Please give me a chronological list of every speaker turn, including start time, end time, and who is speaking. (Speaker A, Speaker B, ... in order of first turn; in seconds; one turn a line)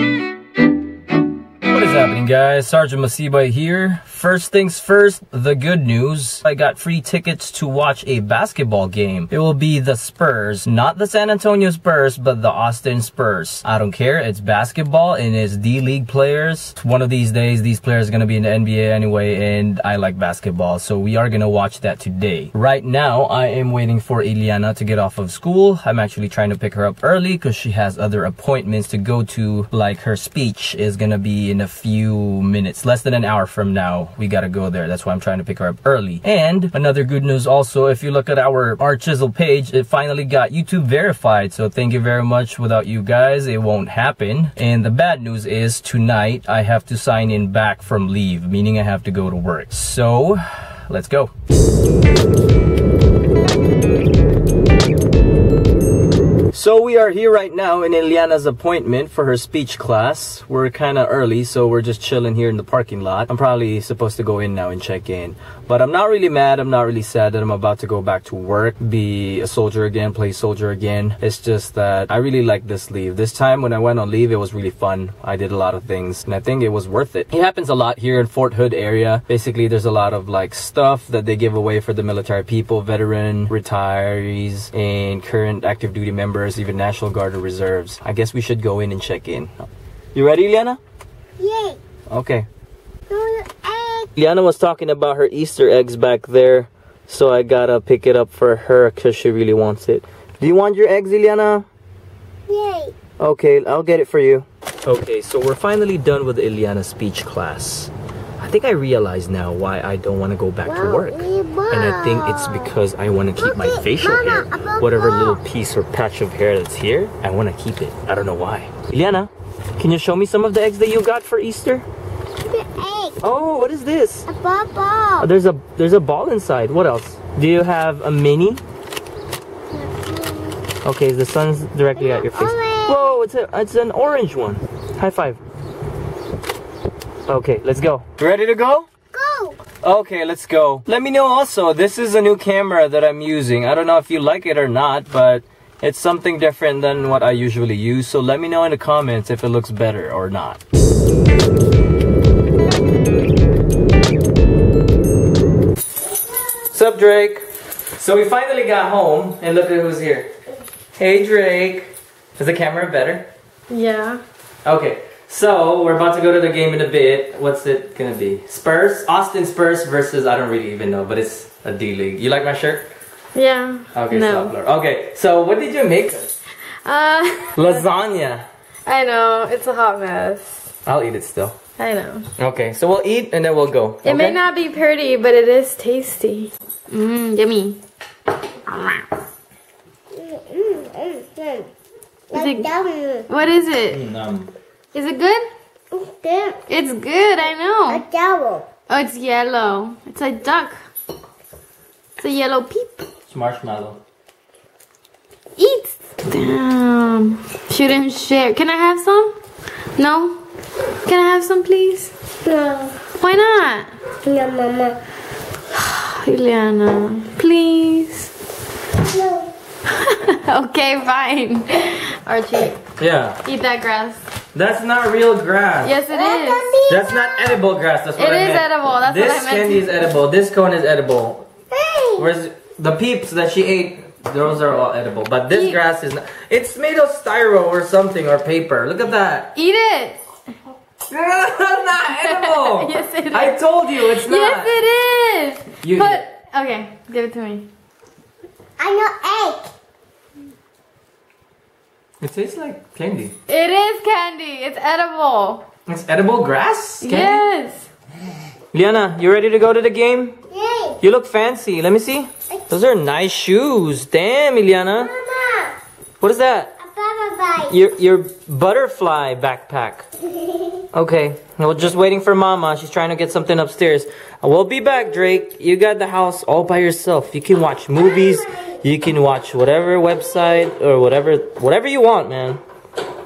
Speaker A: 1.6-51.3
Speaker A: 56.5-90.8
Speaker B: 91.4-91.8
Speaker A: 92.1-92.5
Speaker B: 93.1-94.1
Speaker A: 94.2-101.7
Speaker B: 102.5-102.9
Speaker A: 103.2-121.8
Speaker B: 110.6-112.7
Speaker B: 113.4-115.4
Speaker B: 122.5-123.2
Speaker A: 123.2-124.3
Speaker B: 124.3-125.3
Speaker A: 125.2-128.6
Speaker B: 129.7-130.6
Speaker A: 130.8-135.4
Speaker B: 131.9-133.2
Speaker A: 137.3-138.9
Speaker B: 139.1-139.6
Speaker A: 139.8-150.6
Speaker A: 156.7-157.4
Speaker A: 158.0-160.3
Speaker A: 160.9-163.3
Speaker C: 163.7-164.2
Speaker A: 164.6-172.9
Speaker C: 173.3-174.5
Speaker A: 173.9-176.3
Speaker C: 176.8-177.8
Speaker A: 177.5-178.4
Speaker C: 178.8-180.6
Speaker A: 180.8-181.6
Speaker C: 181.8-182.3
Speaker A: 182.4-184.4
Speaker C: 184.0-187.8
Speaker C: 188.7-189.1
Speaker B: 190.1-191.7
Speaker B: 192.3-193.3
Speaker C: 192.3-192.7
Speaker C: 193.3-194.0
Speaker A: 193.9-194.5
Speaker C: 194.9-195.5
Speaker B: 195.9-196.6
Speaker C: 196.7-198.0
Speaker B: 197.9-198.7
Speaker C: 198.9-200.8
Speaker C: 202.2-203.1
Speaker A: 203.3-204.0
Speaker C: 205.6-209.3
Speaker C: 210.0-210.4
Speaker C: 211.0-212.1
Speaker B: 212.4-213.0
Speaker C: 213.1-213.9
Speaker B: 214.2-215.0
Speaker C: 215.7-218.3
Speaker B: 219.0-219.5
Speaker C: 219.8-222.8
Speaker A: 223.0-223.4
Speaker C: 223.4-224.2
Speaker A: 224.5-225.9
Speaker C: 225.8-226.7
Speaker B: 226.1-227.5
Speaker A: 226.9-231.5
Speaker C: 228.2-229.9
Speaker B: 231.7-232.2
Speaker A: 232.2-239.5
Speaker C: 235.5-235.8
Speaker C: 239.5-240.2
Speaker A: 241.1-244.7
Speaker C: 242.1-247.7
Speaker A: 245.8-246.2
Speaker B: 248.8-249.7
Speaker A: 252.2-253.3
Speaker C: 253.5-255.7
Speaker A: 255.9-257.4
Speaker C: 257.0-257.9
Speaker A: 258.7-260.4
Speaker B: 260.5-261.0
Speaker A: 261.0-265.1
Speaker B: 265.0-265.8
Speaker A: 266.2-266.7
Speaker B: 266.8-267.7
Speaker A: 267.7-270.1
Speaker B: 270.4-270.7
Speaker A: 270.9-282.6